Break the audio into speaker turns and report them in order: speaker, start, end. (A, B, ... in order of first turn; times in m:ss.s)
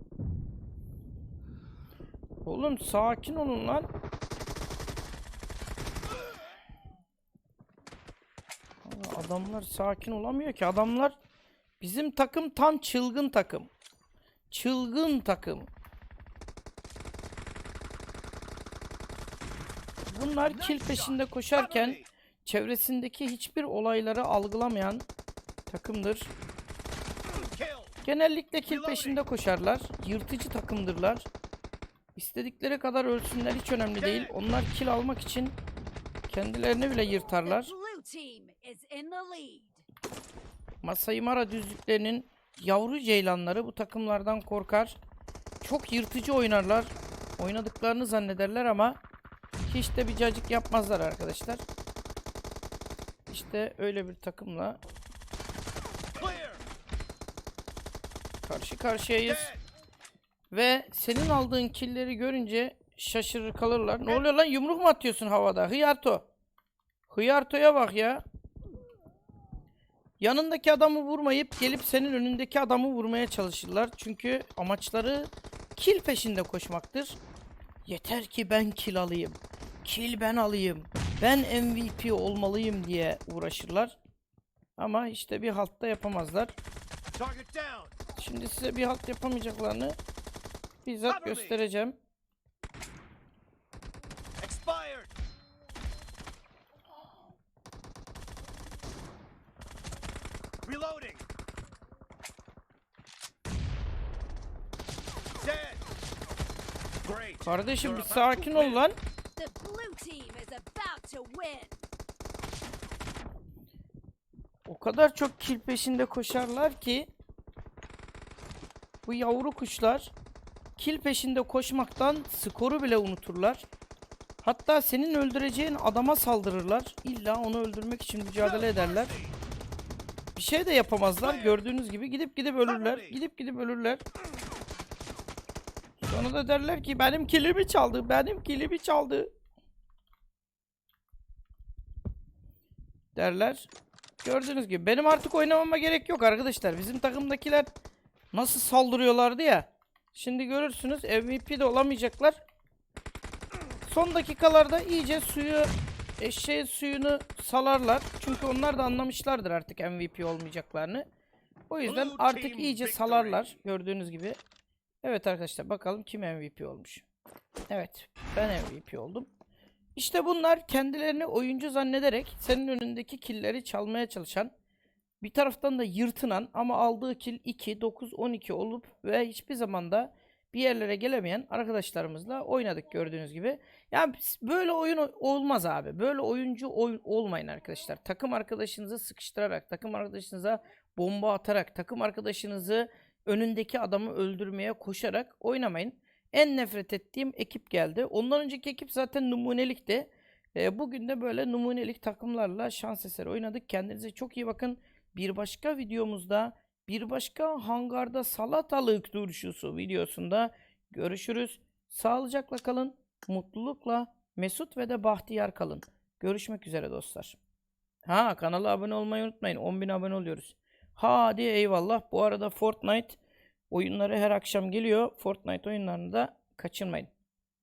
0:02.4-0:03.9 A
0:08.8-0:11.2 A
0:11.8-0:13.7 A
0:14.5-0:15.7 A
0:20.1-0:25.0 A
0:20.4-0:22.1 B
0:25.7-0:26.3 A
0:27.3-0:27.9 B
0:28.0-0:31.3 A
0:28.7-0:29.2 B
0:32.2-0:35.6 A
0:34.0-0:34.3 B
0:36.3-0:37.7 A
0:37.4-0:39.8 C
0:40.8-0:45.0 A
0:45.6-0:49.0 A
0:49.6-0:51.6 A
0:53.3-0:54.8 A
0:56.2-0:56.6 B
0:58.4-0:59.5 A
0:59.3-0:59.6 B
1:00.5-1:06.2 A
1:07.1-1:08.2 A
1:10.2-1:17.2 A
1:17.8-1:24.0 A
1:24.8-1:26.5 A
1:27.1-1:27.9 B
1:28.2-1:30.0 A
1:30.8-1:32.0 A
1:31.0-1:31.6 B
1:34.4-1:35.1 B
1:40.6-1:41.2 B
1:45.4-1:45.8 B
1:47.0-1:48.8 B
1:47.4-1:49.0 A
1:49.4-1:51.8 C
1:54.6-1:57.1 A
1:59.0-2:00.1 A
2:00.8-2:03.6 A
2:04.4-2:09.1 A
2:08.4-2:09.3 B
2:10.4-2:14.0 A
2:11.2-2:11.6 B
2:12.7-2:13.2 B
2:16.0-2:19.3 A
2:23.1-2:23.7 A
2:24.2-2:27.7 A
2:28.3-2:32.4 A
2:33.8-2:41.0 A
2:41.7-2:44.4 A
2:41.8-2:43.5 B
2:45.0-2:47.0 A
2:47.7-2:49.3 A
2:50.0-2:54.5 A
2:55.2-3:37.4 A
3:38.0-3:43.2 A
3:43.7-3:47.1 A